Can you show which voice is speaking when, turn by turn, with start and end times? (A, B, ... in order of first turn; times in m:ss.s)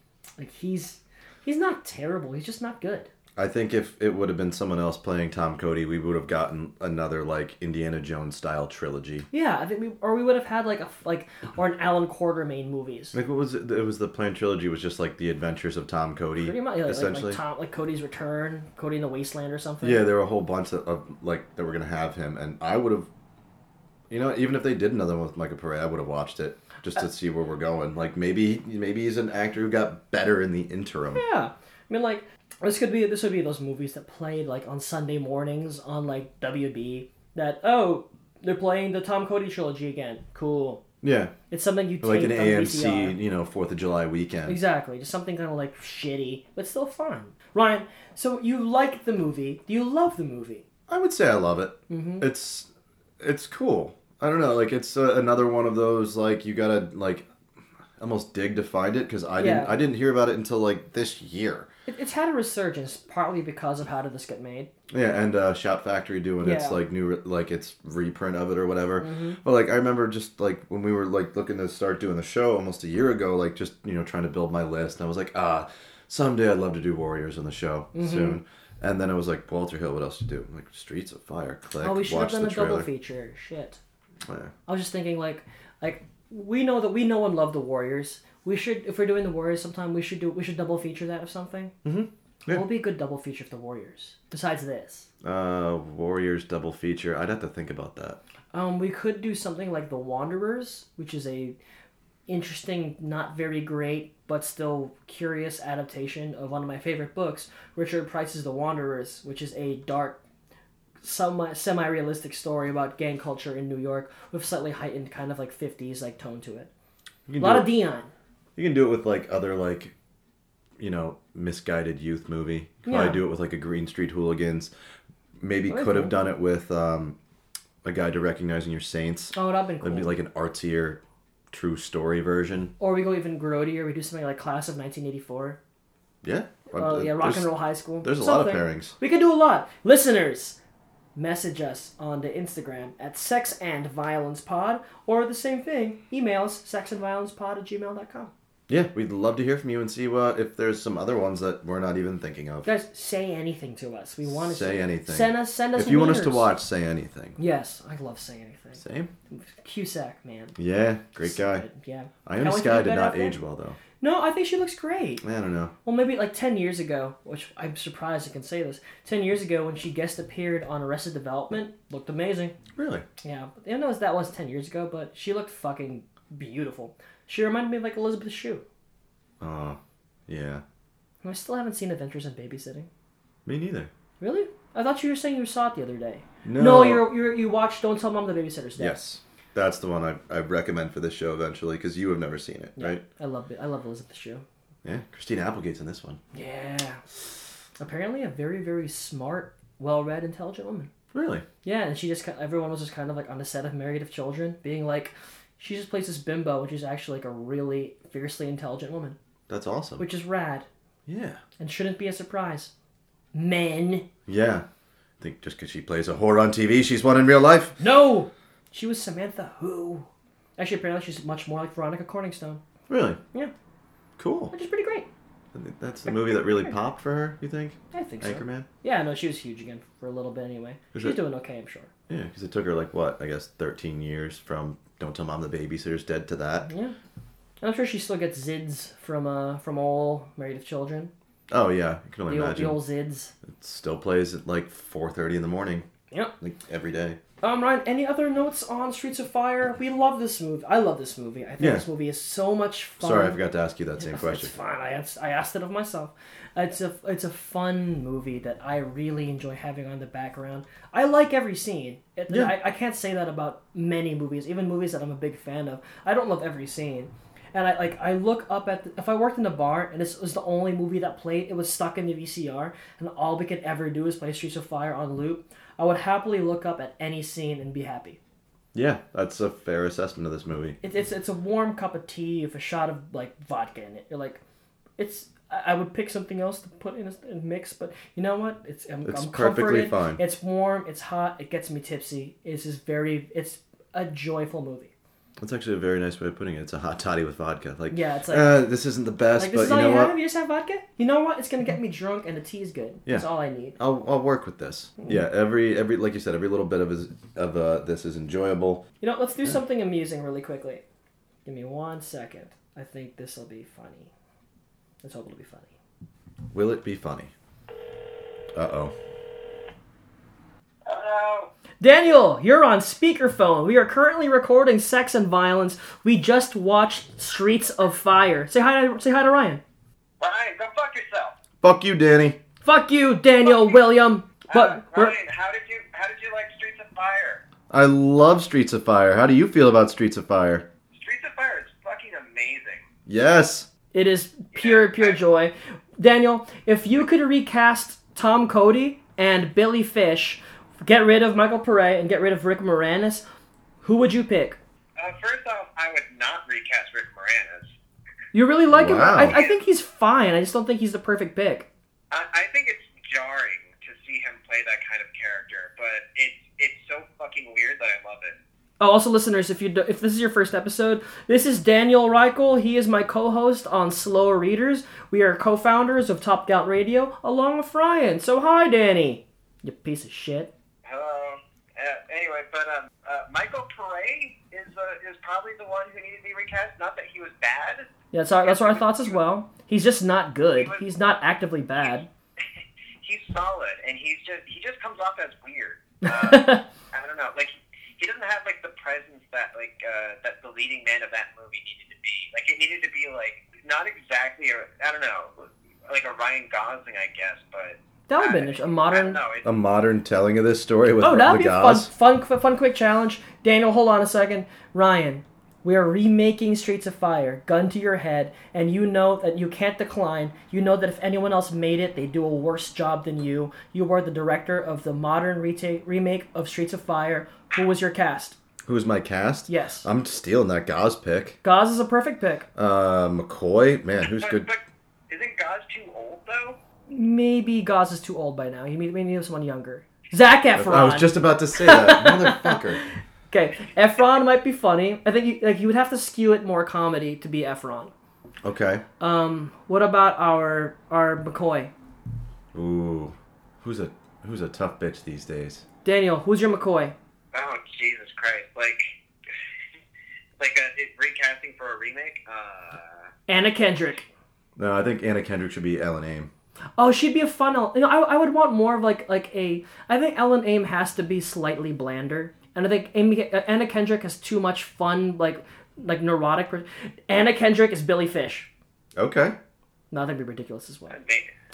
0:00.4-0:03.1 A
0:03.4-0:09.3 B
0:09.3-0:13.2 A
0:13.1-0:17.4 B
0:16.4-0:20.1 A
0:19.8-0:23.1 B
0:24.1-0:31.2 B
0:31.1-0:40.8 A
0:41.0-0:41.4 B
0:41.5-0:43.2 A
0:42.0-0:44.6 B
0:44.4-0:50.6 A
0:50.9-0:52.7 B
0:51.9-0:52.3 A
0:53.2-0:57.3 B
0:58.0-1:01.7 B
0:59.4-0:59.8 A
1:01.9-1:04.7 A
1:04.9-1:22.9 B
1:06.4-1:06.8 A
1:09.0-1:09.4 A
1:17.9-1:18.4 A
1:21.8-1:23.8 A
1:24.2-1:24.5 B
1:24.7-1:31.7 A
1:31.8-1:32.7 B
1:32.5-1:35.1 A
1:35.2-1:38.2 B
1:38.5-1:41.6 A
1:42.3-1:50.2 A
1:51.0-1:56.7 A
1:57.3-1:57.8 B
1:57.4-1:58.1 A
1:58.6-1:59.9 B
2:00.8-2:04.7 B
2:02.8-2:03.2 A
2:05.4-2:07.2 B
2:05.7-2:06.1 A
2:07.8-2:11.0 B
2:09.3-2:10.1 A
2:11.5-2:12.7 B
2:12.8-2:15.6 A
2:16.2-2:18.9 B
2:16.7-2:20.6 A
2:21.2-2:28.3 A
2:28.7-2:32.7 B
2:32.6-2:36.5 A
2:34.2-2:37.4 B
2:37.4-2:40.6 A
2:38.8-2:39.1 B
2:40.6-2:41.7 B
2:41.2-2:43.4 A
2:42.2-2:43.8 B
2:44.0-2:45.2 A
2:45.2-2:45.7 B
2:45.8-2:52.5 A
2:52.8-2:53.0 B
2:53.2-2:58.6 A
2:59.4-3:00.6 B
3:01.2-3:02.9 A
3:03.4-3:03.9 B
3:04.2-3:09.0 A
3:06.4-3:07.1 B
3:08.8-3:13.0 B
3:12.8-3:14.4 A
3:14.8-3:16.2 B
3:16.3-3:17.0 A
3:17.8-3:20.9 A
3:21.1-3:21.4 B
3:21.6-3:29.2 A
3:29.5-3:30.0 B
3:30.0-3:30.7 A
3:31.1-3:31.4 B
3:31.6-3:32.7 A
3:33.3-3:34.1 A
3:34.3-3:34.6 B
3:35.2-3:37.8 B
3:37.8-3:42.6 A
3:42.9-3:43.2 B
3:44.2-3:44.5 B
3:44.5-3:45.1 A
3:45.5-3:48.7 B
3:46.0-3:46.8 A
3:47.9-3:51.9 A
3:50.9-3:51.2 B
3:52.1-3:56.7 B
3:56.7-3:57.0 A
3:57.6-4:01.1 A
4:01.5-4:02.8 B
4:02.3-4:03.3 A
4:03.4-4:05.8 B
4:06.4-4:07.2 B
4:07.4-4:13.4 A
4:11.6-4:11.8 B
4:13.0-4:14.5 B
4:14.0-4:38.2 A
4:22.3-4:22.5 B
4:38.7-4:40.8 B
4:40.8-4:44.4 A
4:45.0-4:54.9 A
4:49.0-4:50.2 B
4:55.4-5:00.2 B
4:57.9-4:58.6 A
4:59.4-5:03.8 A
5:03.0-5:08.8 B
5:09.0-5:10.8 A
5:11.4-5:14.1 A
5:15.0-5:15.7 A
5:16.5-5:17.3 B
5:18.5-5:18.9 B
5:20.8-5:21.5 C
5:21.8-5:29.6 A
5:30.2-5:31.3 C
5:31.6-5:32.4 B
5:32.6-5:35.2 A
5:33.4-5:33.8 C
5:34.5-5:37.4 C
5:37.7-5:40.6 B
5:40.9-5:42.9 C
5:43.1-5:43.7 B
5:43.9-5:53.2 A
5:44.5-5:45.2 C
5:53.8-5:54.6 A
5:55.0-5:57.7 C
5:58.3-6:01.7 A
5:58.7-5:59.4 B
5:59.1-5:59.6 C
6:02.1-6:08.4 C
6:08.8-6:20.5 A
6:20.8-6:27.9 C
6:28.1-6:32.1 A
6:28.4-6:29.2 C
6:30.6-6:30.8 C
6:33.0-6:49.4 C
6:36.0-6:36.6 A
6:48.1-6:49.2 A
6:49.4-6:51.9 B
6:51.0-7:08.4 A
7:08.6-7:11.4 B
7:09.5-7:09.8 A
7:11.4-7:12.5 A
7:12.6-7:14.5 B
7:14.0-7:16.6 C
7:16.9-7:27.9 A
7:20.6-7:22.8 B
7:28.4-7:28.8 B
7:29.0-7:31.7 A
7:32.5-7:35.6 B
7:35.8-7:36.9 A
7:37.3-7:39.0 C
7:40.4-7:43.0 C
7:43.3-7:44.1 A
7:44.6-7:46.3 B
7:46.8-7:58.5 A
7:59.0-7:59.4 B
7:59.9-8:01.0 A
8:00.9-8:01.3 C